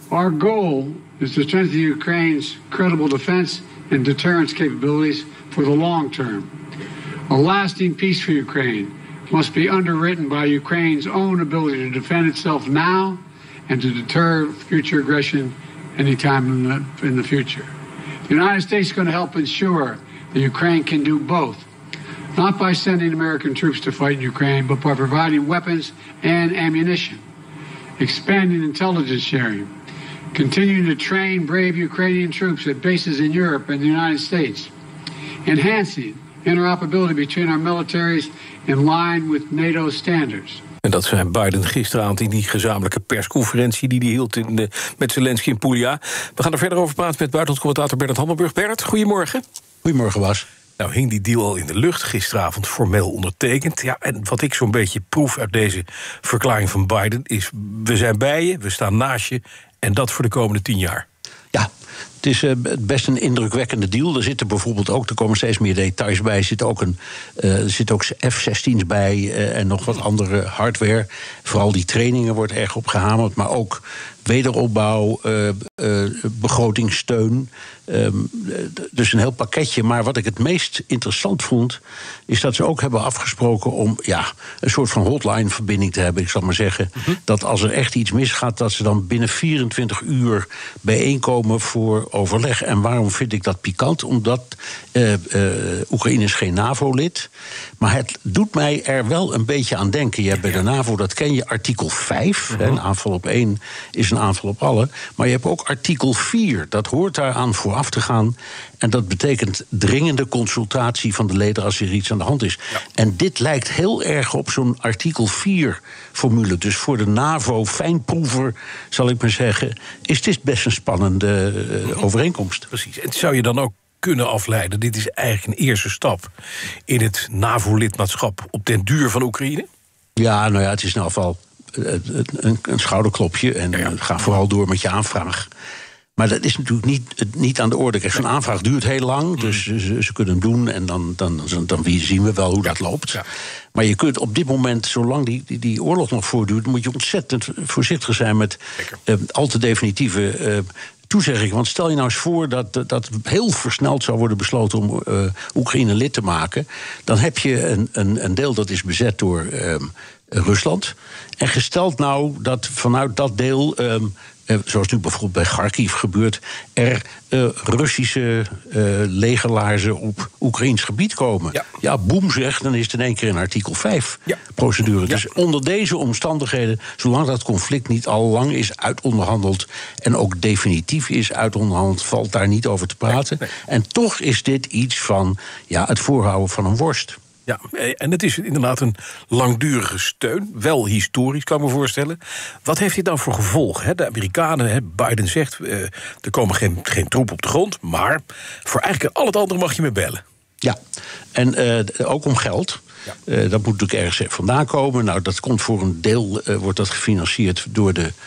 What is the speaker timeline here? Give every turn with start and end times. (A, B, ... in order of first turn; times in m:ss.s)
0:00.1-0:06.5 A
0:07.3-0:17.7 A
0:18.3-0:21.6 A
0:22.3-0:27.2 A
0:28.0-0:29.7 A
0:30.3-0:34.7 A
0:35.4-0:40.6 A
0:40.8-0:49.4 B
0:49.8-0:50.4 C
0:50.8-1:01.0 B
1:02.2-2:02.7 C
2:02.7-2:06.3 B
2:06.9-2:09.7 B
2:10.2-2:15.5 C
2:16.2-3:07.2 C
3:07.4-3:20.2 B
3:21.3-3:28.1 C